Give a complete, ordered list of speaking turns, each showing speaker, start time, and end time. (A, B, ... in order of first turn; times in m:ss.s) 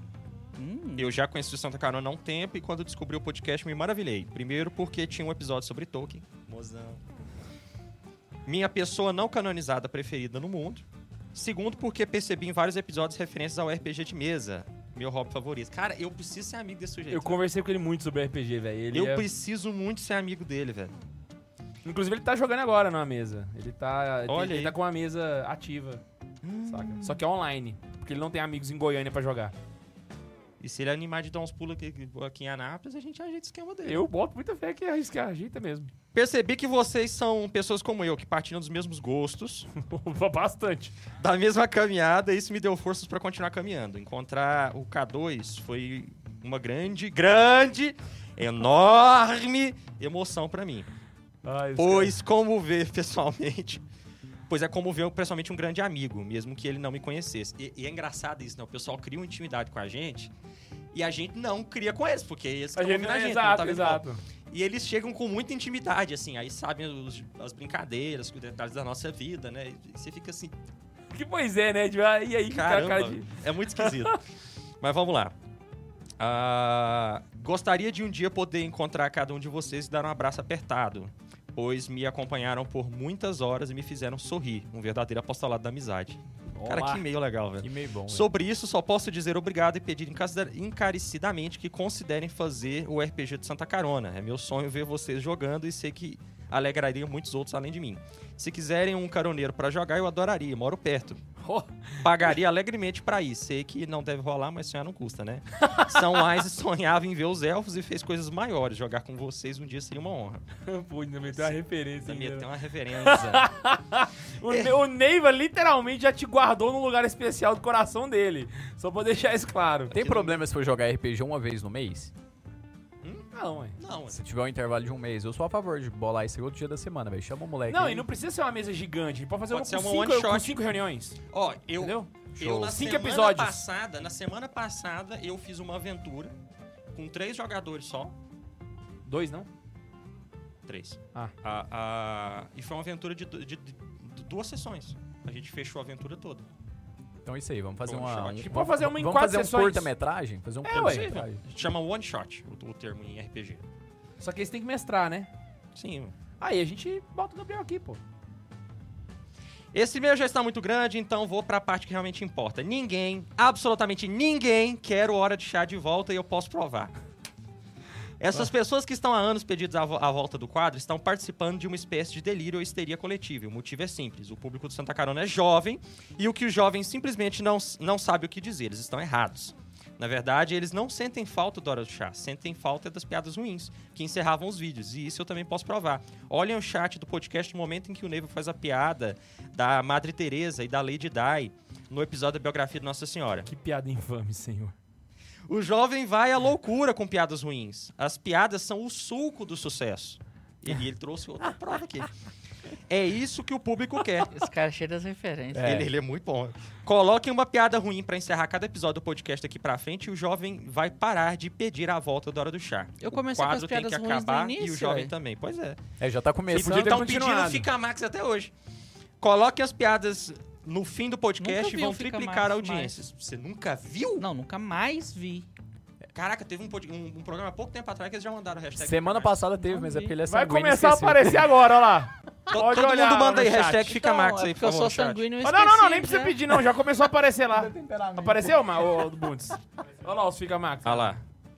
0:00.6-0:01.2 A
0:01.0-0:07.0 B
0:08.5-0:17.4 B
0:17.1-0:19.3 C
0:18.9-0:20.9 B
0:21.8-0:26.0 C
0:24.3-0:24.8 B
0:26.4-0:27.2 B
0:26.7-0:29.5 C
0:30.6-0:34.0 B
0:33.8-0:35.9 C
0:36.1-0:39.7 B
0:39.7-0:40.9 C
0:41.2-0:50.9 B
0:51.4-0:52.1 C
0:51.8-0:53.8 B
0:54.5-1:00.3 B
1:00.9-1:10.5 B
1:02.8-1:04.2 C
1:11.1-1:14.2 C
1:12.5-1:14.2 B
1:14.8-1:15.4 B
1:16.2-1:41.2 B
1:26.6-1:27.0 C
1:27.6-1:28.3 D
1:41.4-1:42.3 C
1:42.0-1:50.4 B
1:50.6-1:52.5 C
1:51.3-1:53.5 B
1:53.0-2:00.0 C
1:54.4-1:54.7 B
1:59.9-2:02.1 D
2:00.0-2:00.4 B
2:03.0-2:04.2 B
2:03.3-2:03.8 C
2:04.1-2:08.1 D
2:07.7-2:11.2 C
2:09.5-2:10.6 B
2:11.3-2:16.3 B
2:11.8-2:13.6 C
2:16.9-2:18.1 B
2:19.1-2:19.5 C
2:20.7-2:26.4 B
2:27.2-2:31.4 D
2:27.8-2:28.6 B
2:28.5-2:29.9 C
2:30.6-2:31.2 C
2:30.9-2:33.6 B
2:34.2-2:35.3 C
2:35.8-2:36.1 B
2:36.4-2:38.0 C
2:39.7-2:46.9 B
2:48.2-3:13.5 B
3:13.5-3:14.8 C
3:15.5-3:22.1 B
3:22.9-3:24.3 B
3:24.3-3:25.8 A
3:25.5-3:25.9 D
3:25.6-3:35.8 B
3:33.0-3:35.1 A
3:36.0-3:37.6 D
3:36.5-3:38.5 B
3:39.2-3:44.3 B
3:41.4-3:43.0 A
3:44.2-3:45.5 A
3:46.2-3:49.4 B
3:48.8-3:51.6 D
3:49.6-3:50.1 A
3:50.3-3:53.9 C
3:52.5-3:55.2 B
3:53.9-3:56.4 A
3:55.4-4:01.2 C
3:57.5-3:59.0 D
4:00.8-4:01.2 B